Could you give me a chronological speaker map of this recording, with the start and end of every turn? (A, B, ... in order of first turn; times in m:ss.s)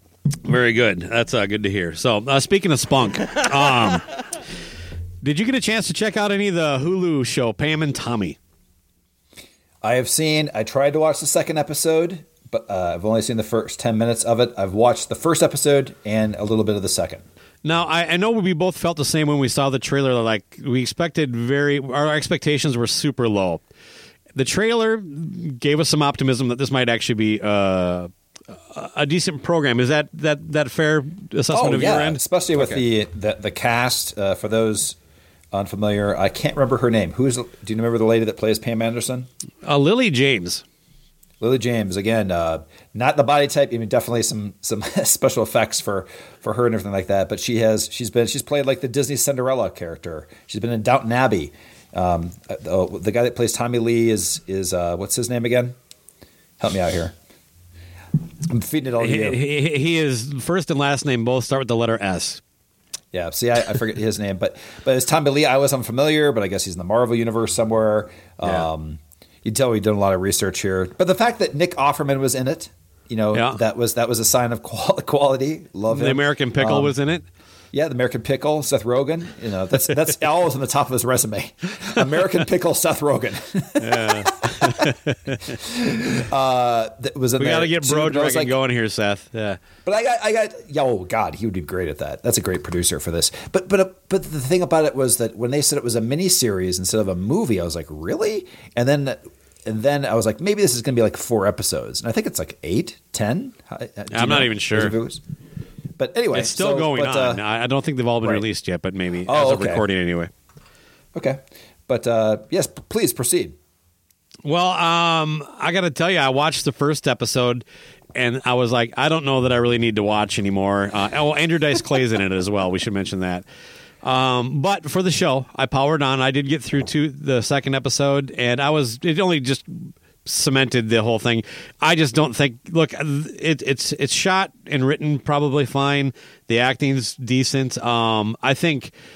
0:00.4-0:04.1 A
0:05.2-0:08.4 A
0:09.8-0:17.2 B
0:17.6-0:23.6 A
0:24.4-0:28.1 A
0:28.7-0:32.8 A
0:31.5-0:35.0 B
0:35.5-0:39.3 B
0:39.6-0:40.6 A
0:41.4-0:55.8 B
0:56.6-0:57.1 B
0:58.5-0:59.4 B
0:59.0-1:02.4 A
1:03.1-1:17.0 B
1:13.3-1:13.6 A
1:15.9-1:17.2 A
1:17.7-1:24.3 B
1:23.8-1:25.5 A
1:25.6-1:28.6 B
1:27.4-1:29.6 A
1:29.8-1:45.2 B
1:44.1-1:45.0 A
1:46.0-1:47.4 B
1:46.3-1:50.3 A
1:49.2-1:49.8 B
1:51.1-1:53.6 B
1:54.4-1:57.6 A
1:58.1-2:03.4 A
2:04.0-2:18.9 A